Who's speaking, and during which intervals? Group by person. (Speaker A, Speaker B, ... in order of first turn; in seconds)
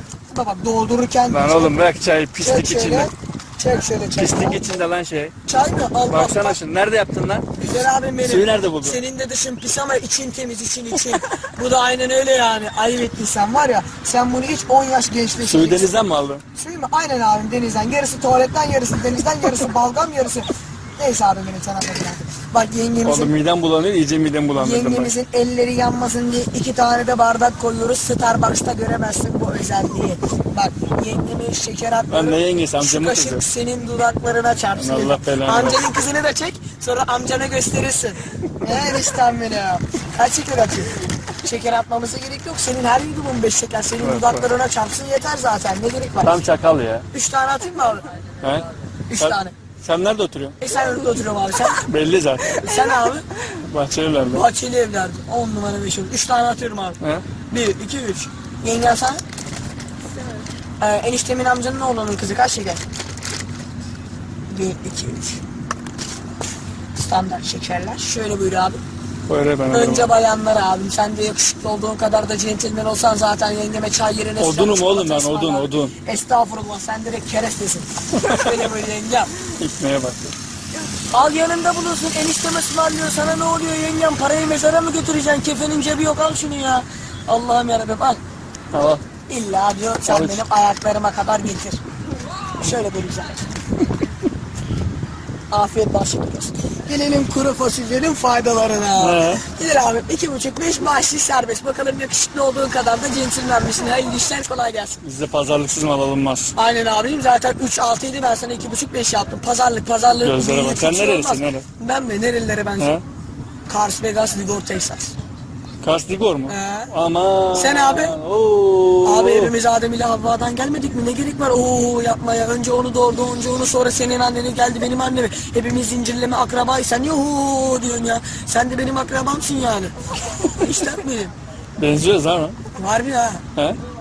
Speaker A: 0.3-1.8, 2.4-4.6, 5.5-6.6, 7.6-15.9, 16.5-23.3, 24.6-46.4, 47.1-48.1, 49.1-49.5, 50.6-51.9, 52.5-53.3, 54.3-57.0, 57.5-59.2, 60.8-62.8, 64.5-65.4, 67.0-68.8, 69.7-79.3, 80.9-88.2, 89.3-91.8, 92.6-93.4, 95.5-105.0, 106.5-113.0, 113.7-115.2, 116.5-116.9, 117.5-118.2, 119.0-131.3, 132.8-133.4
Speaker B: 1.3-3.1, 4.1-5.3, 6.1-7.5, 8.2-9.0, 15.4-16.4, 23.0-25.1, 32.1-33.4, 34.8-35.8, 38.7-38.9, 44.0-44.5, 46.2-47.1, 49.2-50.6, 51.8-52.7, 53.5-54.5, 69.3-70.1, 74.4-75.9, 78.1-78.7, 79.6-80.4, 88.7-89.0, 90.1-90.4, 99.0-99.4, 105.0-106.5, 110.2-111.7, 115.8-119.5, 131.8-132.6